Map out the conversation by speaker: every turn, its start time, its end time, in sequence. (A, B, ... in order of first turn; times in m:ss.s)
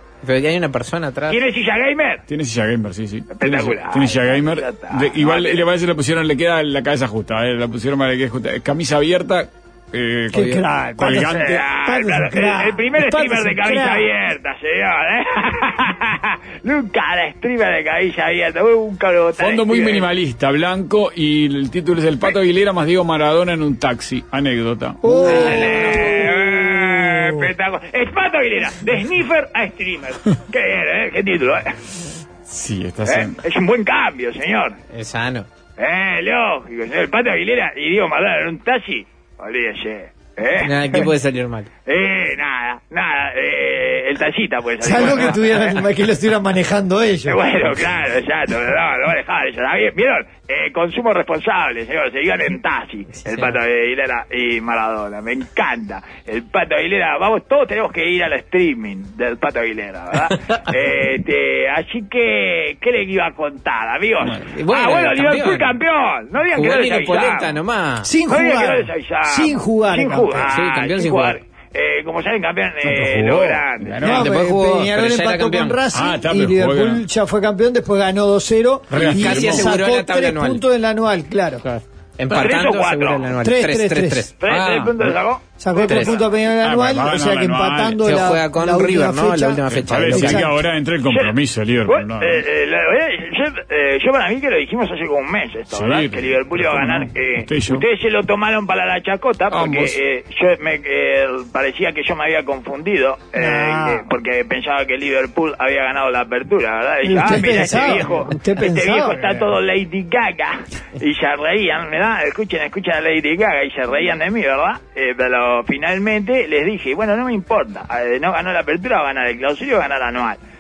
0:00.2-0:01.4 A
0:01.3-0:02.2 B
0:02.3-0:11.6 C
0:03.3-0:05.6 B
0:10.3-0:14.1 D
0:11.0-0:20.1 B
0:19.4-0:25.4 C
0:25.0-0:27.5 D
0:25.2-0:26.2 A
0:25.2-0:31.8 B
0:32.5-0:33.4 C
0:33.0-0:34.8 B
0:34.9-0:35.5 A
0:35.8-0:41.1 B
0:40.6-0:41.7 A
0:41.9-0:45.9 B
0:44.8-0:47.4 D
0:47.3-1:07.6 B
0:53.2-0:53.6 A
1:04.5-1:05.7 A
1:06.5-1:08.1 A
1:08.0-1:10.5 D
1:08.3-1:14.0 B
1:10.5-1:11.4 A
1:12.8-1:14.4 C
1:14.0-1:21.6 D
1:14.0-1:15.8 A
1:15.9-1:17.0 C
1:18.9-1:19.8 C
1:19.0-1:20.6 A
1:21.6-1:24.3 A
1:22.3-1:23.3 B
1:23.4-1:24.3 D
1:24.4-1:26.4 B
1:24.5-1:25.2 C
1:25.6-1:30.5 D
1:25.9-1:26.2 A
1:26.6-1:28.1 C
1:28.0-1:30.5 A
1:29.7-1:32.4 C
1:31.1-1:31.4 B
1:31.9-2:00.4 B
1:35.7-1:37.9 C
1:39.5-1:40.0 C
1:43.4-1:44.0 D
1:47.0-1:49.5 D